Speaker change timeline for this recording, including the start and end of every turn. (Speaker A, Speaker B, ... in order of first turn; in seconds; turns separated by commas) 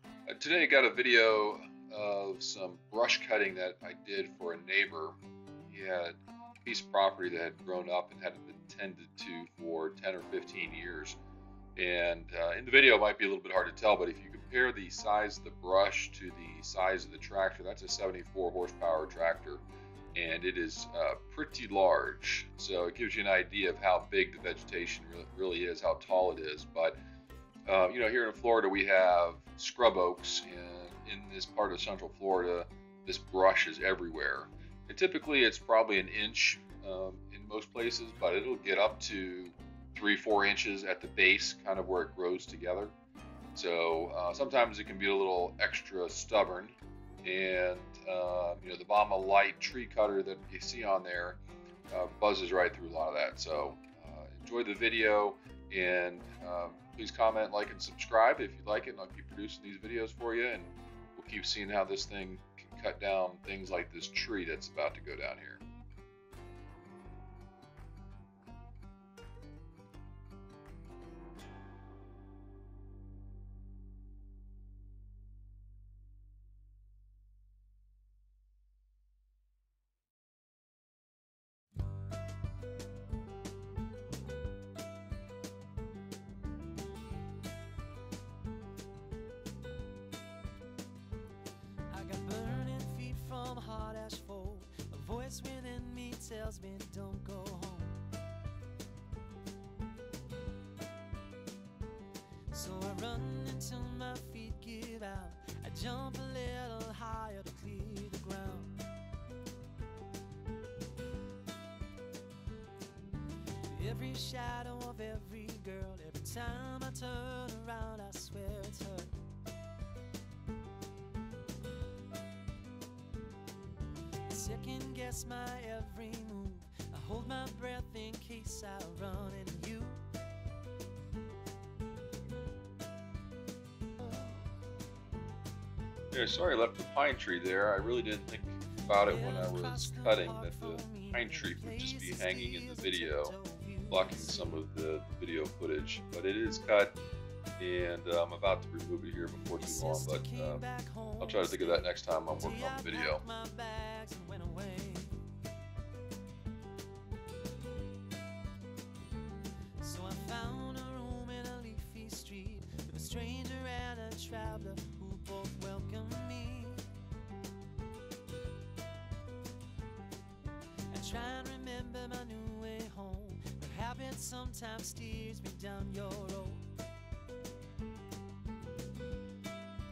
Speaker A: 0.3-11.2, Speaker A: 11.8-19.6, Speaker A: 20.1-27.0, Speaker A: 27.7-42.9, Speaker A: 43.5-51.4, Speaker A: 51.9-65.6, Speaker B: 91.9-98.1, Speaker B: 102.5-108.8, Speaker B: 113.7-119.2, Speaker B: 124.3-130.0, Speaker A: 136.1-143.3, Speaker B: 139.0-144.6, Speaker A: 143.9-146.9, Speaker A: 147.6-150.6, Speaker B: 149.6-155.2, Speaker A: 151.2-153.2, Speaker B: 159.8-166.9, Speaker B: 170.9-176.7